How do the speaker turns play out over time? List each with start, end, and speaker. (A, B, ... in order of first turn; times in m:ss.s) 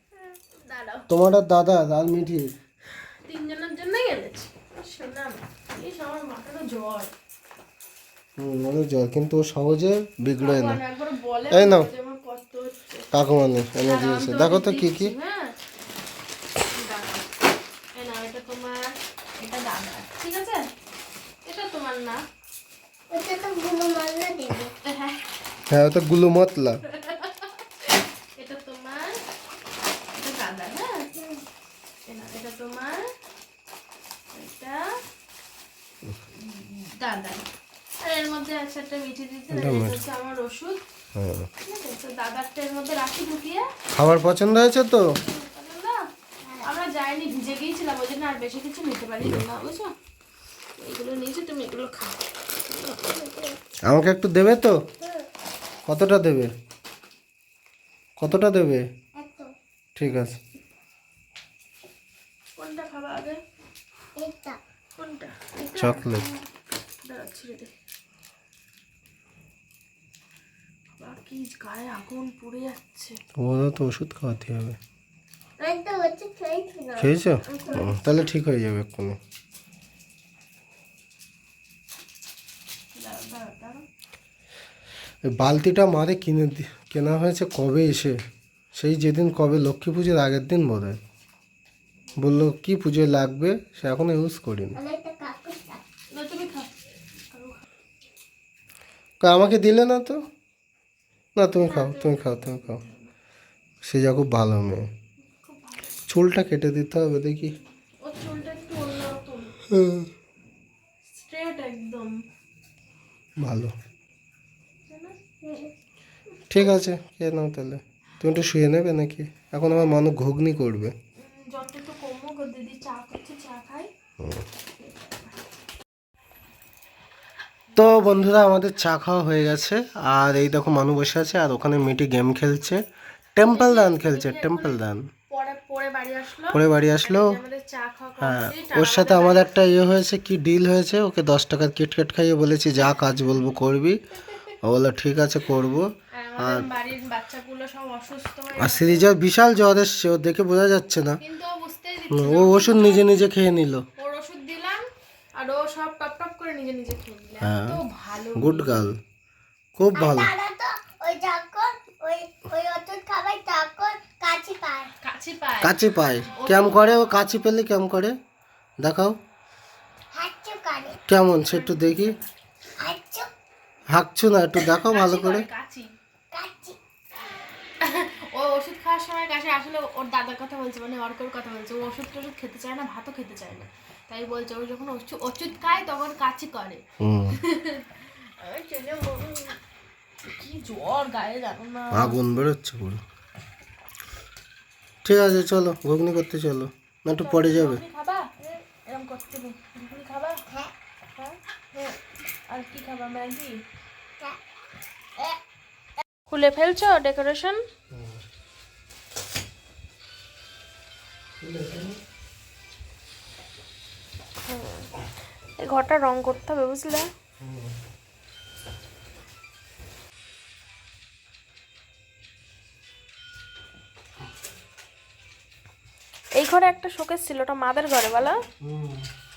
0:00.6-0:01.0 A
0:01.1-0:02.5 B
0:03.3-0:07.1 A
0:08.4-0:10.8 B
0:10.4-0:13.1 A
0:11.5-0:11.9 B
0:13.1-0:15.2 B
0:13.8-0:15.5 A
0:16.7-0:17.3 A
0:18.0-0:20.7 A
0:21.4-0:22.2 A
0:23.1-0:24.7 C
0:24.8-0:25.2 A
0:25.7-0:26.8 B
0:26.9-0:29.2 A
0:30.1-0:31.1 A
0:32.1-0:33.0 A
0:34.3-0:34.8 A
0:36.4-0:37.4 A
0:38.0-0:40.8 A
0:39.5-0:40.0 B
0:41.2-0:41.5 B
0:41.6-0:43.7 A
0:44.0-0:45.1 B
0:45.3-0:46.1 A
0:46.6-0:49.9 A
0:50.8-0:53.4 A
0:53.9-0:54.8 B
0:55.9-0:56.5 B
0:58.2-0:58.8 B
0:59.2-0:59.5 C
1:00.0-1:00.4 B
1:02.6-1:03.4 A
1:04.2-1:04.6 C
1:05.0-1:06.3 A
1:05.7-1:06.3 B
1:07.0-1:07.7 A
1:11.0-1:13.2 A
1:13.4-1:14.8 B
1:15.6-1:18.0 C
1:17.0-1:19.2 B
1:23.0-1:23.8 A
1:25.2-1:28.2 B
1:28.7-1:31.0 B
1:32.2-1:34.8 B
1:34.8-1:35.8 C
1:36.1-1:36.7 A
1:37.3-1:37.6 A
1:39.2-1:40.2 B
1:41.4-1:42.8 B
1:41.6-1:43.0 A
1:43.8-1:44.9 B
1:45.4-1:46.0 A
1:46.1-1:47.6 B
1:48.0-1:49.6 A
1:49.7-1:50.1 B
1:51.1-1:52.2 A
1:53.4-1:53.7 B
1:54.9-1:55.2 A
1:55.4-1:55.7 C
1:56.5-2:01.0 B
2:01.2-2:03.9 A
2:04.2-2:04.4 B
2:07.8-2:12.8 B
2:13.4-2:15.0 B
2:13.5-2:14.8 A
2:15.3-2:19.5 A
2:16.5-2:17.4 B
2:18.2-2:24.0 B
2:24.2-2:24.6 A
2:24.6-2:26.7 B
2:26.1-2:29.0 A
2:28.6-2:31.2 B
2:31.2-2:33.2 A
2:32.1-2:33.8 B
2:34.0-2:34.8 A
2:35.4-2:38.8 A
2:37.4-2:37.8 B
2:38.4-2:39.0 B
2:39.8-2:40.3 B
2:40.0-2:44.9 C
2:45.0-2:45.8 A
2:45.6-2:48.2 B
2:46.3-2:47.0 A
2:48.8-2:49.2 B
2:50.2-2:51.0 C
2:51.1-2:52.2 B
2:51.5-2:52.2 A
2:52.8-2:53.3 C
2:53.9-2:55.5 B
2:54.9-2:55.9 A
2:56.3-2:56.8 C
2:57.8-3:07.9 A
3:07.0-3:07.4 B
3:08.4-3:09.6 A
3:10.3-3:12.2 A
3:11.9-3:13.0 B
3:15.0-3:17.8 B
3:17.2-3:20.4 A
3:21.2-3:22.0 A
3:22.5-3:23.5 A
3:26.3-3:27.6 A
3:27.9-3:28.2 B
3:31.4-3:32.0 B
3:34.5-3:34.9 A
3:35.6-3:37.1 A
3:37.4-3:37.7 B
3:46.4-3:48.4 A
3:48.6-3:49.1 B